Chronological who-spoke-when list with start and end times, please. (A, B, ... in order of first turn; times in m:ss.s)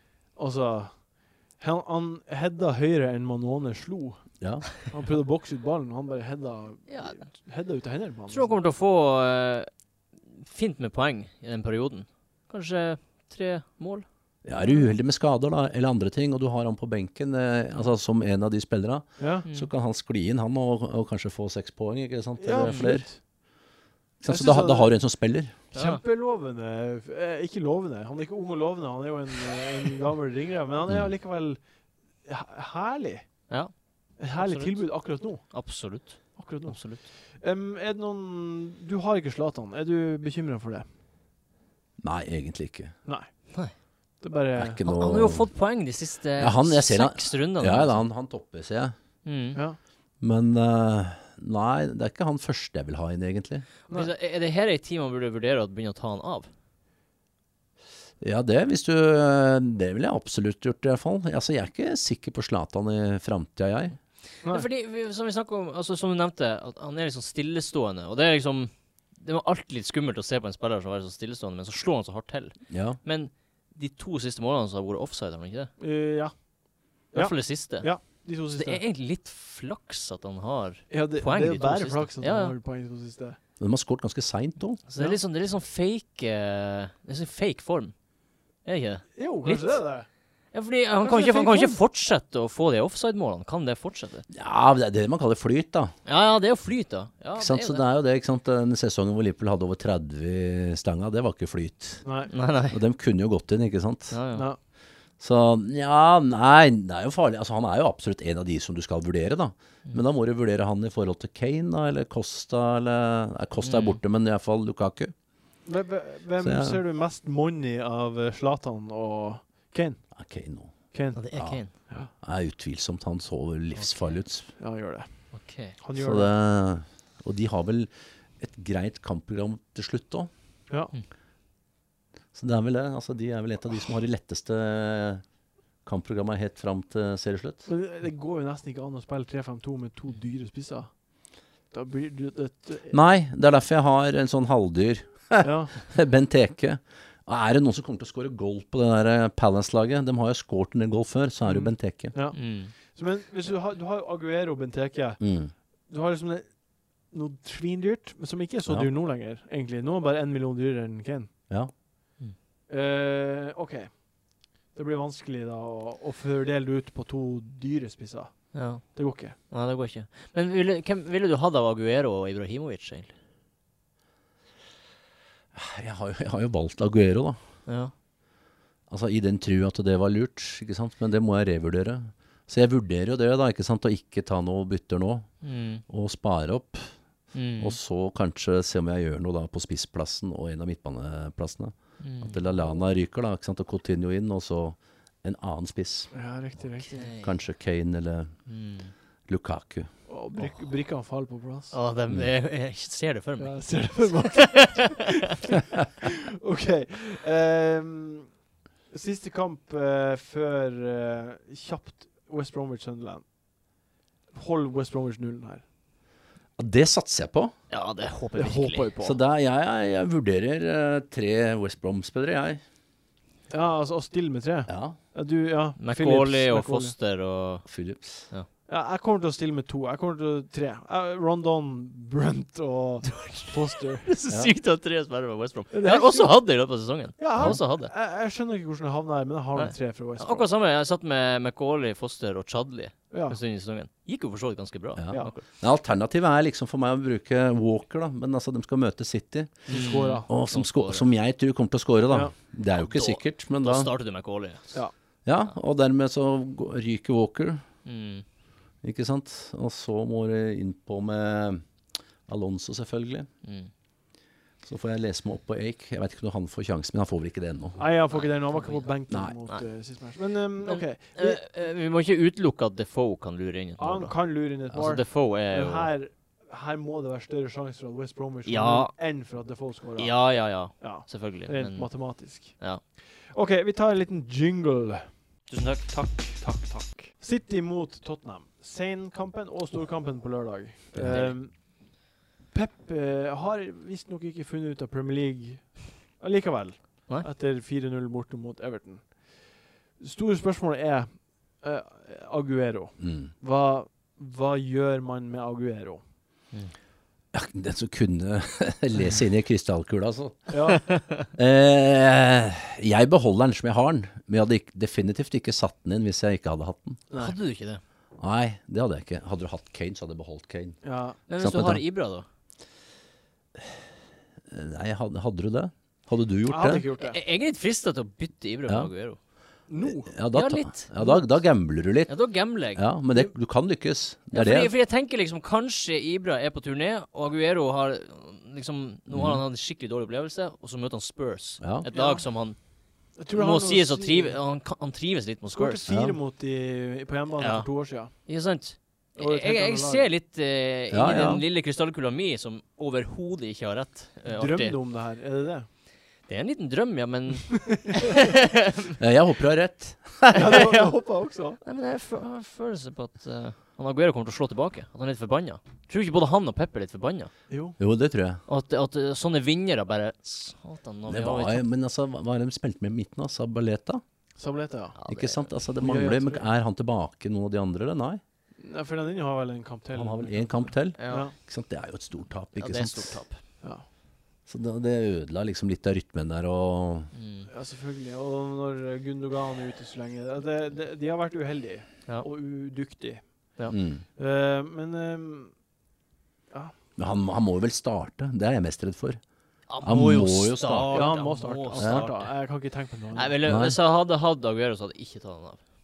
0:00.4-0:08.6 A
0:04.4-0:04.7 B
0:06.9-0:07.3 C
0:08.3-0:09.7 C
0:10.4-0:14.0 C
0:14.4-0:23.1 B
0:19.2-0:19.4 A
0:22.4-0:23.2 A
0:22.6-0:22.9 C
0:24.2-0:25.5 B
0:24.3-0:24.9 A
0:25.7-0:31.6 A
0:25.7-0:26.0 C
0:32.2-0:33.3 A
0:33.5-0:37.0 C
0:34.2-0:35.5 A
0:36.4-0:40.9 A
0:42.0-0:42.9 B
0:44.2-0:44.8 A
0:44.6-0:45.5 B
0:44.8-0:48.1 C
0:46.4-0:48.9 B
0:49.2-0:49.6 C
0:50.2-0:53.6 B
0:53.9-0:56.5 C
0:58.2-1:04.0 B
1:04.4-1:15.7 C
1:12.7-1:13.0 B
1:15.8-1:16.3 A
1:17.1-1:18.8 A
1:17.1-1:22.5 C
1:20.9-1:23.4 A
1:23.6-1:24.8 B
1:24.9-1:27.9 C
1:28.6-1:29.8 C
1:29.2-1:30.1 A
1:30.5-1:34.2 C
1:31.0-1:31.8 A
1:34.3-1:35.9 B
1:36.0-1:37.8 C
1:37.4-1:42.0 B
1:42.0-1:42.3 A
1:42.3-1:42.8 C
1:42.7-1:44.2 B
1:44.1-1:44.5 C
1:44.3-1:44.6 A
1:45.2-1:55.1 B
1:53.6-1:54.0 C
1:55.6-2:00.0 A
1:56.4-1:56.8 B
2:00.1-2:00.8 B
2:00.9-2:02.1 A
2:01.2-2:01.8 C
2:01.3-2:04.5 B
2:03.8-2:04.2 C
2:04.6-2:06.3 A
2:05.3-2:05.8 C
2:05.9-2:10.3 B
2:12.3-2:15.2 B
2:15.8-2:17.6 B
2:17.6-2:20.9 A
2:21.7-2:22.9 A
2:22.9-2:32.1 B
2:25.4-2:25.8 A
2:31.4-2:35.2 A
2:32.3-2:32.7 C
2:35.2-2:35.5 B
2:35.9-2:36.6 A
2:37.1-2:41.3 A
2:42.7-2:44.2 A
2:44.7-2:49.4 A
2:48.5-2:53.1 C
2:55.5-2:57.4 B
2:57.6-2:57.9 C
2:58.9-3:07.0 B
3:05.4-3:05.8 C
3:07.3-3:07.8 C
3:07.6-3:16.1 B
3:12.0-3:12.4 C
3:16.1-3:17.1 A
3:16.8-3:17.3 C
3:17.2-3:18.3 B
3:18.5-3:18.9 C
3:19.3-3:19.9 B
3:20.1-3:21.7 A
3:21.7-3:25.0 C
3:23.4-3:28.3 A
3:28.9-3:33.2 A
3:34.3-3:35.6 A
3:36.6-3:37.5 B
3:37.7-3:38.9 C
3:38.3-3:39.2 A
3:39.0-3:42.6 B
3:43.5-3:46.9 A
3:44.7-3:45.0 B
3:45.8-3:47.7 C
3:47.6-3:48.3 B
3:48.2-3:48.5 C
3:48.7-3:54.1 A
3:53.1-3:57.9 C
3:54.3-3:54.5 B
3:55.7-3:56.4 A
3:57.2-4:00.5 A
3:59.6-4:05.4 C
4:03.1-4:03.4 A
4:05.0-4:09.7 B
4:09.7-4:10.3 A
4:09.7-4:11.1 C
4:10.3-4:13.9 B
4:12.1-4:12.3 A
4:12.8-4:14.8 C
4:15.2-4:17.6 B
4:17.8-4:18.2 C
4:18.8-4:21.6 B
4:22.3-4:23.3 B
4:23.4-4:23.7 C
4:24.6-4:27.8 B
4:27.8-4:31.4 A
4:28.1-4:28.9 C
4:29.1-4:29.4 B
4:30.6-4:35.9 C
4:33.8-4:45.1 A
4:38.5-4:38.9 C
4:40.0-4:42.8 C
4:45.5-4:47.1 C
4:47.2-4:51.8 A
4:50.9-4:51.2 B
4:51.0-4:51.3 C
4:52.5-5:06.0 A
5:03.0-5:03.3 B
5:07.3-5:10.5 B
5:10.5-5:10.8 A
5:10.8-5:11.3 C
5:11.3-5:17.0 B
5:17.1-5:17.3 A
5:17.2-5:17.8 C
5:18.2-5:20.8 B
5:20.8-5:21.2 A
5:21.3-5:22.2 C
5:21.4-5:21.8 B
5:24.5-5:26.8 B
5:26.5-5:27.2 A
5:27.0-5:29.2 C
5:29.7-5:30.1 A
5:29.8-5:34.7 B
5:30.3-5:31.2 C
5:32.1-5:32.8 C
5:34.3-5:42.6 C
5:39.1-5:39.4 B
5:41.6-5:41.8 B
5:41.9-5:42.2 A
5:43.2-5:44.4 A
5:43.3-5:45.8 C
5:45.5-5:48.1 A
5:45.9-5:46.2 B
5:47.4-5:54.8 C
5:49.2-5:50.1 A
5:50.9-5:51.4 B
5:54.3-5:55.7 A
5:56.3-5:59.0 C
5:57.6-5:57.9 A
5:59.0-6:00.5 B
6:00.3-6:01.6 A
6:00.5-6:00.9 C
6:01.6-6:07.3 C
6:07.5-6:07.8 A
6:07.8-6:08.4 B
6:08.5-6:11.6 C
6:11.1-6:14.0 B
6:14.4-6:15.0 A
6:15.0-6:15.4 C
6:15.1-6:18.2 B
6:15.8-6:16.4 A
6:18.6-6:21.3 A
6:19.9-6:23.2 B
6:21.0-6:21.3 C
6:22.6-6:23.4 C
6:24.4-6:27.1 B
6:27.1-6:27.5 C
6:27.5-6:33.5 A
6:33.7-6:34.0 B
6:34.2-6:35.5 A
6:37.0-6:39.2 B
6:39.7-6:42.4 C
6:39.8-6:41.2 B
6:40.9-6:43.4 A
6:41.7-6:42.1 B
6:43.1-6:45.6 C
6:43.4-6:43.8 B